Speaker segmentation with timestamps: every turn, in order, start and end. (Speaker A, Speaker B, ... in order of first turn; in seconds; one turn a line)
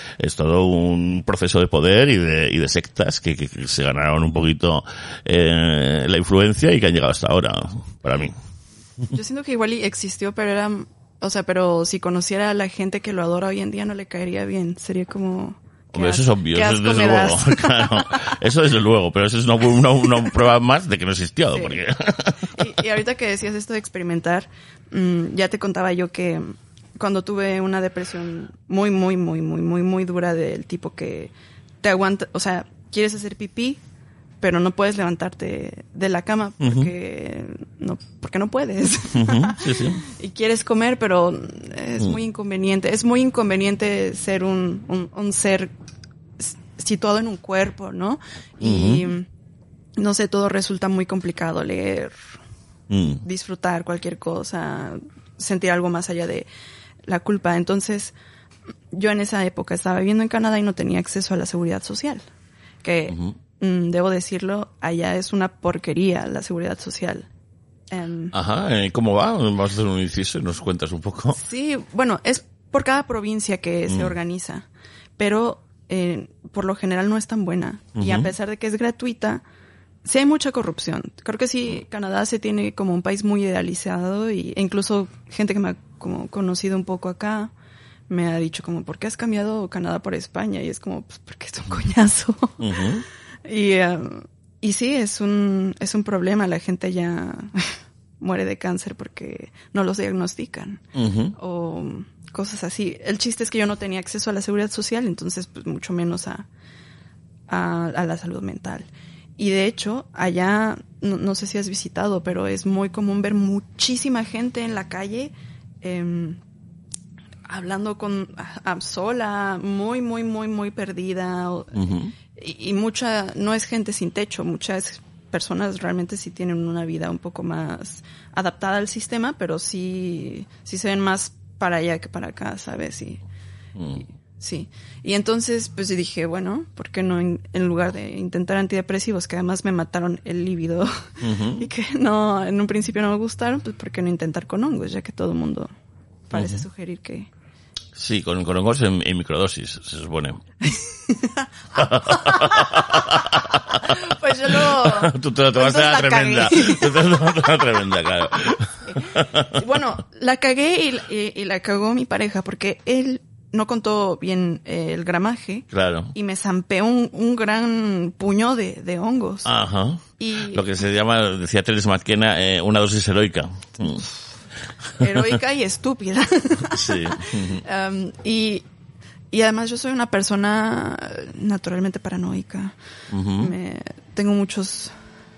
Speaker A: 0.2-8.4
Speaker B: 9.1-18.3
Speaker A: 15.9-22.6
Speaker B: 21.5-21.8
Speaker B: 22.5-33.8
Speaker B: 34.4-45.7
Speaker A: 36.6-36.9
Speaker A: 39.1-40.0
Speaker B: 46.4-49.3
Speaker A: 48.6-49.1
Speaker B: 50.0-52.3
Speaker A: 52.9-53.2
Speaker B: 53.2-56.5
Speaker B: 57.1-58.1
Speaker B: 58.9-62.2
Speaker B: 62.8-67.3
Speaker A: 63.1-63.4
Speaker B: 67.9-68.3
Speaker A: 68.3-71.4
Speaker B: 71.3-74.7
Speaker A: 73.9-74.1
Speaker B: 75.2-79.4
Speaker A: 78.0-78.3
Speaker B: 80.0-87.5
Speaker B: 88.1-92.6
Speaker A: 92.6-93.0
Speaker B: 93.5-100.8
Speaker A: 101.0-101.4
Speaker B: 101.4-106.5
Speaker B: 107.5-116.4
Speaker B: 117.5-133.2
Speaker A: 121.7-122.1
Speaker A: 133.8-134.0
Speaker B: 134.0-145.7
Speaker A: 141.2-141.7
Speaker B: 146.3-147.3
Speaker A: 146.3-146.6
Speaker A: 148.0-150.4
Speaker B: 150.7-157.3
Speaker A: 151.8-154.0
Speaker A: 154.5-159.5
Speaker B: 158.8-169.5
Speaker A: 165.7-166.1
Speaker A: 169.4-174.1
Speaker B: 170.2-170.7
Speaker B: 173.8-174.2
Speaker B: 175.0-178.7
Speaker A: 175.0-175.4
Speaker A: 176.7-177.6
Speaker B: 179.3-182.8
Speaker A: 183.1-183.5
Speaker B: 183.4-184.9